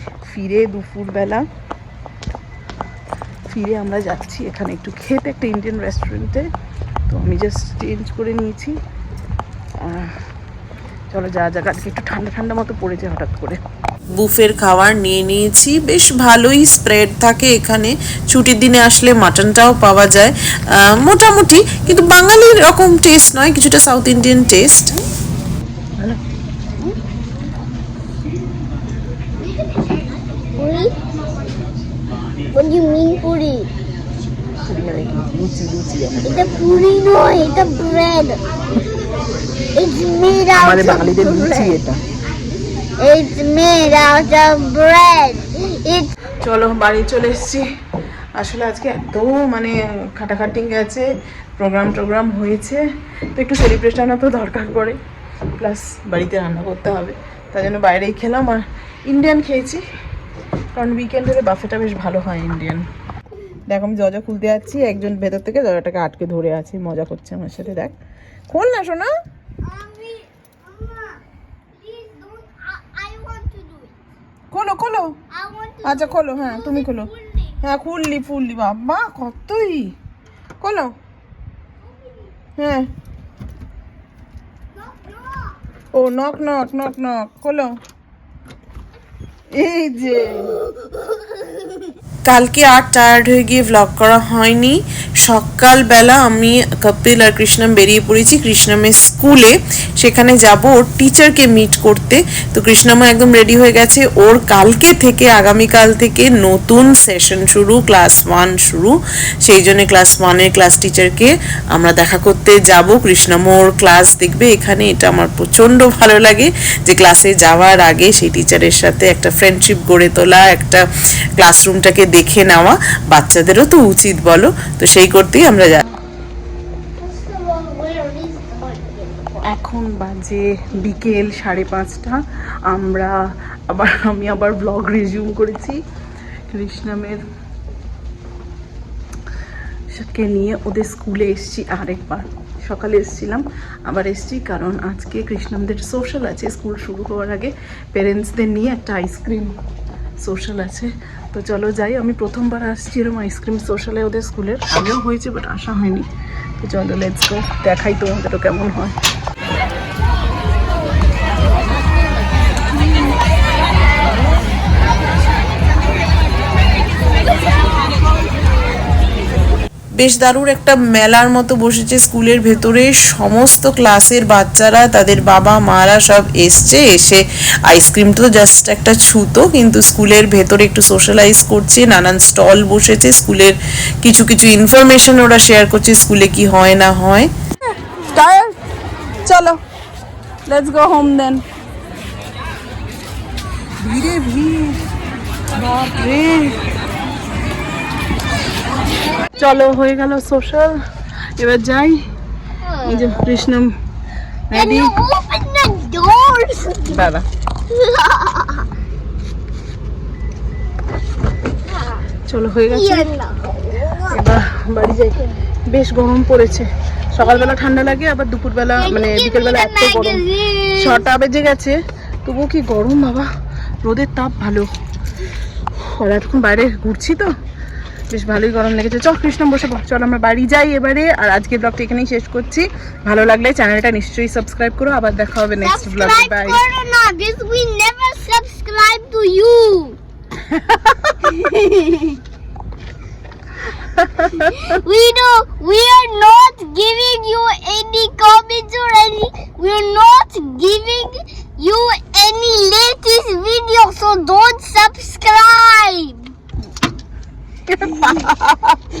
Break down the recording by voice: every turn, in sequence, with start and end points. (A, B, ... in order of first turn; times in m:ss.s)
0:00.2-0:01.4 A
0:03.5-0:06.5 A
0:07.1-0:08.8 A
0:09.8-0:10.1 A
0:11.1-0:13.6 A
0:14.2-0:25.0 B
0:30.6-0:30.9 C
0:32.5-0:33.7 C
0:34.7-0:36.8 A
0:36.2-0:38.4 C
0:39.7-0:41.7 C
0:40.5-0:42.0 A
0:43.0-0:46.1 C
0:46.4-0:47.7 A
0:48.4-0:51.0 A
0:51.6-0:52.8 A
0:53.3-0:55.0 A
0:55.6-0:59.8 A
1:00.7-1:02.8 A
1:03.7-1:07.9 A
1:08.5-1:09.1 A
1:09.6-1:11.2 C
1:11.7-1:13.9 C
1:14.5-1:15.2 A
1:15.3-1:17.6 C
1:15.8-1:17.1 A
1:17.6-1:19.9 A
1:20.6-1:20.9 A
1:22.6-1:22.9 A
1:24.8-1:25.6 C
1:25.9-1:27.7 A
1:29.6-1:30.6 A
1:32.2-2:00.8 B
2:01.4-2:05.8 B
2:07.0-2:09.4 C
2:09.4-2:13.1 A
2:13.7-2:15.8 A
2:16.5-2:17.2 A
2:19.9-2:29.5 A
2:30.2-2:36.1 A
2:36.6-2:38.9 A
2:50.0-3:07.3 B
3:08.1-3:08.5 A
3:09.2-3:09.6 A
3:10.5-3:11.4 A
3:13.8-3:14.8 A
3:15.6-3:16.6 A
3:19.4-3:20.7 A
3:21.4-3:22.0 A
3:22.7-3:23.2 C
3:22.8-3:23.7 A
3:24.5-3:24.9 A
3:24.5-3:27.1 C
3:26.9-3:27.2 A
3:27.7-3:28.6 C
3:32.3-3:33.1 A
3:32.7-3:34.2 C
3:34.1-3:40.2 A
3:38.8-3:41.1 C
3:40.8-3:43.3 A
3:43.8-3:44.7 A
3:45.7-3:47.3 A
3:48.1-3:56.6 A
3:55.6-4:00.0 C
4:00.5-4:00.9 A
4:01.2-4:02.2 C
4:04.2-4:16.3 C
4:17.8-4:18.6 A